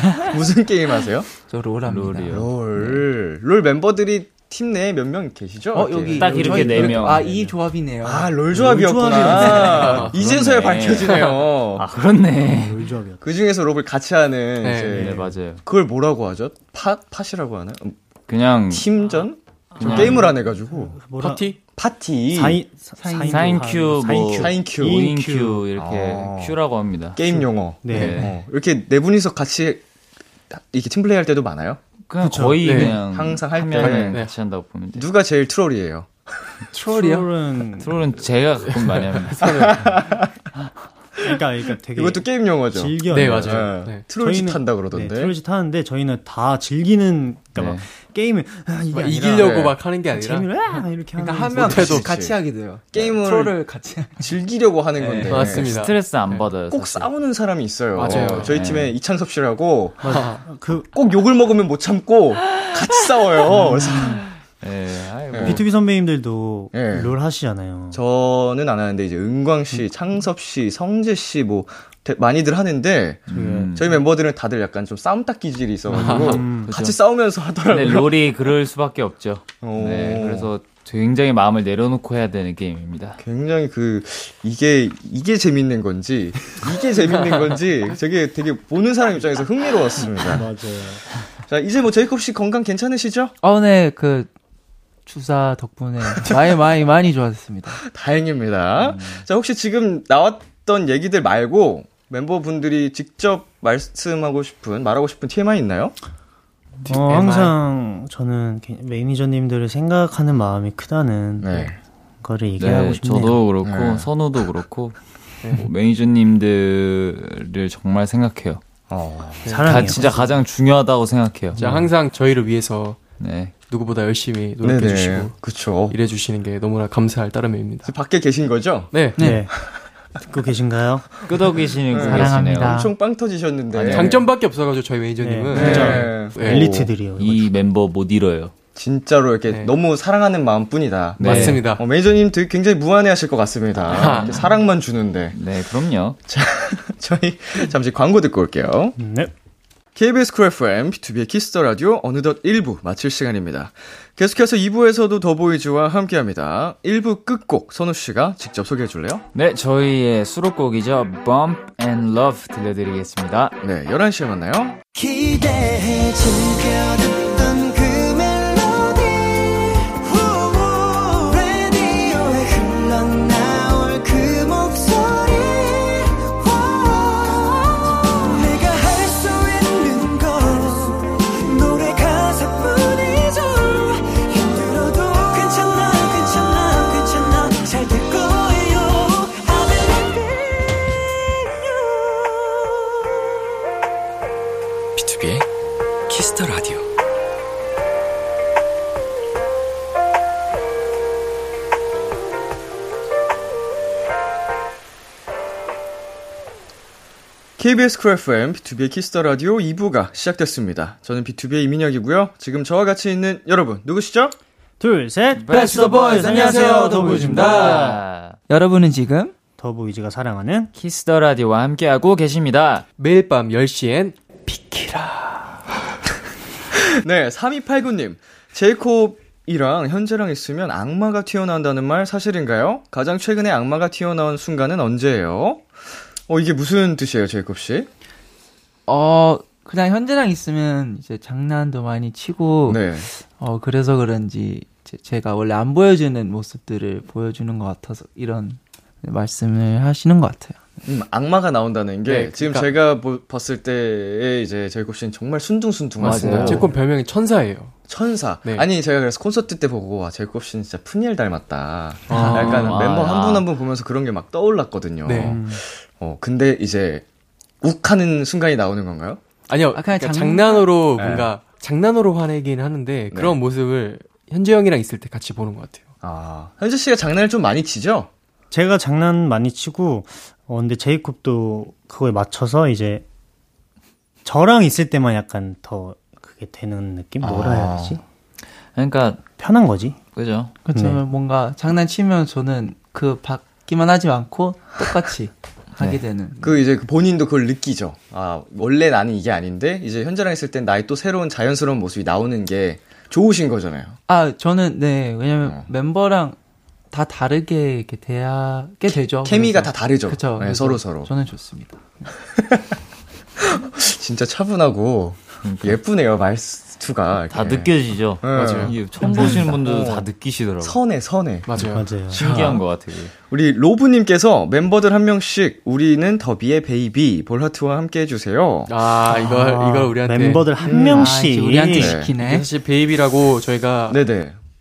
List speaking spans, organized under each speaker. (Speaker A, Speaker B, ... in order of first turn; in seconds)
Speaker A: 0.2-1.3, 2.3-6.9, 8.0-11.9, 13.2-18.0, 18.7-20.9, 21.8-22.6, 24.3-25.0, 25.8-26.6, 27.2-29.9, 30.5-31.8, 32.8-34.2, 34.9-36.6, 39.4-40.3, 41.9-45.3, 49.4-49.8, 51.7-52.4, 52.9-53.6, 54.2-55.7, 56.7-60.2, 60.9-64.2, 65.3-65.6, 66.7-67.1, 67.9-78.3, 79.6-80.5, 83.2-90.5, 91.5-93.3, 97.8-106.0, 111.4-111.8, 113.6-114.1, 118.9-119.5, 124.6-126.0, 127.9-128.9, 131.9-134.2, 135.5-136.4, 138.8-145.4, 146.3-149.0, 149.9-159.2, 163.6-164.8, 195.0-195.4, 196.1-196.8, 207.6-214.3, 227.0-235.6, 236.3-237.9, 242.7-243.1, 250.8-256.7, 257.9-267.0, 267.6-269.2, 271.0-271.3, 273.1-273.4, 276.0-278.1, 287.2-288.0, 296.4-304.0, 305.4-305.7, 308.9-311.1, 313.4-320.1, 320.6-321.5, 322.2-322.6, 323.3-328.7, 330.8-331.2, 331.8-332.1, 333.9-334.4
Speaker B: 1.4-2.4, 5.7-8.3, 9.4-9.7, 23.0-23.7, 36.8-37.2, 51.2-54.3, 93.4-94.3, 95.1-97.8, 129.2-129.5, 132.0-132.8, 215.5-218.0, 218.5-219.3, 238.9-250.6, 262.1-262.7, 269.8-270.7, 290.6-296.6, 304.1-306.4, 306.9-312.1, 330.6-332.5
Speaker C: 1.9-3.1, 6.2-7.3, 9.8-12.8, 15.0-15.6, 18.3-18.9, 19.8-20.3, 23.3-27.4, 27.9-28.3, 32.1-35.1, 37.8-39.9, 47.5-47.8, 55.4-57.1, 58.1-59.0, 64.6-65.7, 73.3-73.9, 75.9-77.0, 77.7-83.2, 98.8-99.2, 112.6-115.0, 115.5-118.6, 119.6-121.6, 123.2-123.5, 131.3-132.8, 133.7-134.1, 135.6-138.5, 141.2-141.7, 143.8-144.5, 145.3-146.2, 159.3-163.6, 215.4-215.8, 217.5-218.4, 220.8-222.8, 256.0-256.7, 262.3-263.4, 288.8-289.2, 290.1-290.6, 315.4-315.8, 317.3-320.8, 322.1-323.1
Speaker D: 6.2-7.6, 8.5-10.2, 12.4-13.2, 19.8-21.5, 22.3-25.6, 27.8-28.3, 32.2-32.8, 36.9-38.0, 41.2-52.1, 55.0-55.3, 60.0-60.9, 63.7-64.2, 65.4-68.0, 73.3-73.8, 76.0-76.7, 90.1-91.0, 106.9-113.4, 119.5-120.3, 121.6-121.9, 129.2-129.5, 130.2-131.1, 132.0-132.9, 135.2-137.5, 149.0-149.3, 214.8-217.8, 219.6-220.7, 265.2-265.6, 278.5-283.0, 284.2-288.0, 289.4-290.0, 290.7-291.0, 321.6-322.2, 329.1-332.0
Speaker E: 9.7-10.1, 11.0-11.4, 14.6-15.1, 21.2-21.6, 32.6-33.0, 33.8-34.4, 38.7-39.8, 43.1-44.0, 48.9-50.5, 51.5-52.1, 55.3-56.5, 58.0-58.6, 60.1-60.4, 75.9-76.4, 107.1-107.5, 115.4-115.7, 119.4-120.2, 121.6-123.0, 123.7-125.4, 125.9-127.9, 128.9-129.2, 133.8-136.7, 139.5-139.8, 141.2-141.8, 143.9-144.5, 223.0-225.5, 252.1-252.7, 256.0-257.8, 262.1-262.8, 265.0-265.4, 269.5-275.9, 318.3-318.7, 321.5-321.9, 328.7-330.6, 332.2-334.0
Speaker F: 164.9-190.7, 192.1-192.4, 215.6-217.8